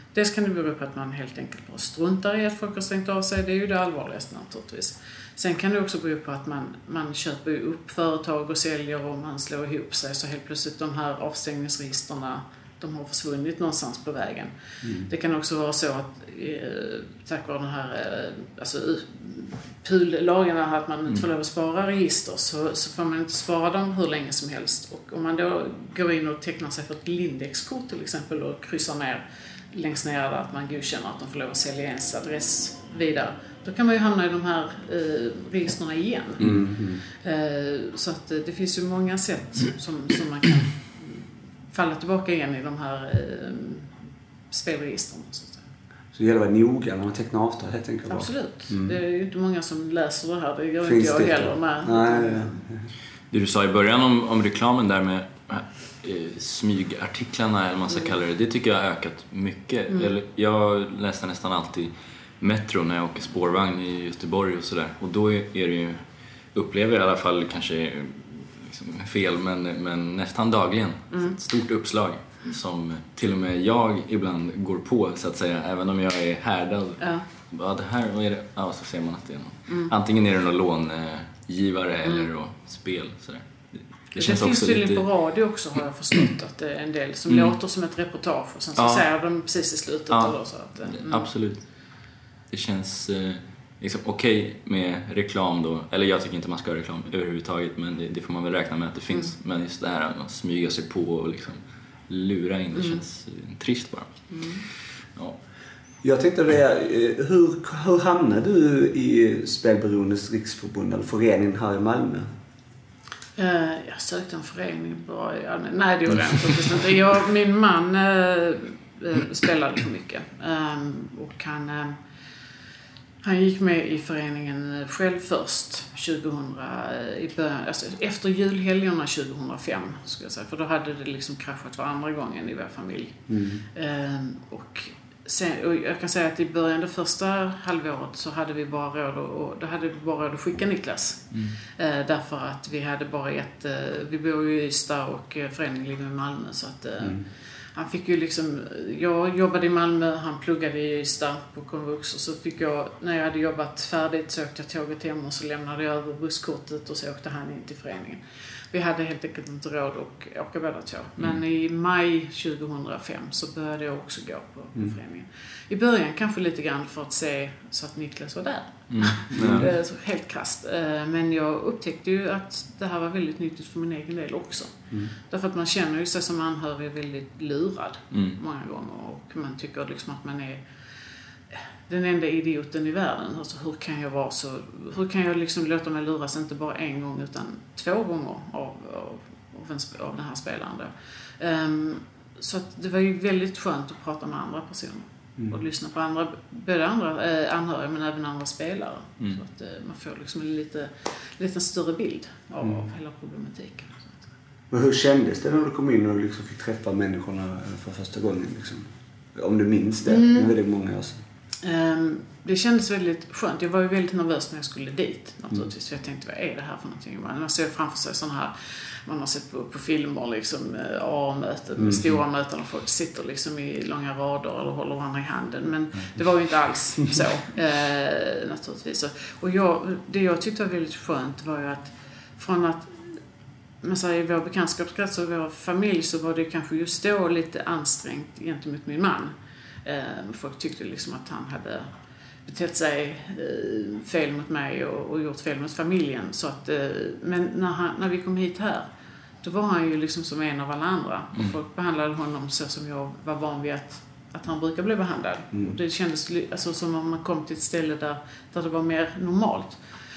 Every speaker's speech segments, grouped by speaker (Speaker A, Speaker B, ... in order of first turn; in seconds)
Speaker A: 0.1-14.5, 15.1-36.6, 37.2-43.9, 44.5-45.6, 48.1-52.6, 77.0-77.2, 84.2-91.3, 104.3-104.7, 113.4-122.0, 123.2-133.2, 133.7-147.2, 147.8-158.2, 158.7-174.8, 175.3-180.6, 181.5-204.2, 210.1-210.5, 211.6-233.2, 233.8-239.3, 239.8-241.9, 242.5-248.9, 249.4-259.8
Speaker B: 14.8-15.1, 36.4-37.0, 46.1-49.0, 50.8-52.9, 106.0-112.3, 133.3-133.6, 169.4-169.7, 204.7-211.2, 221.8-222.1
Speaker C: 53.3-66.0, 66.5-85.0, 87.3-87.6, 88.8-89.1, 90.1-91.7, 92.5-104.3, 168.9-169.7, 178.1-178.4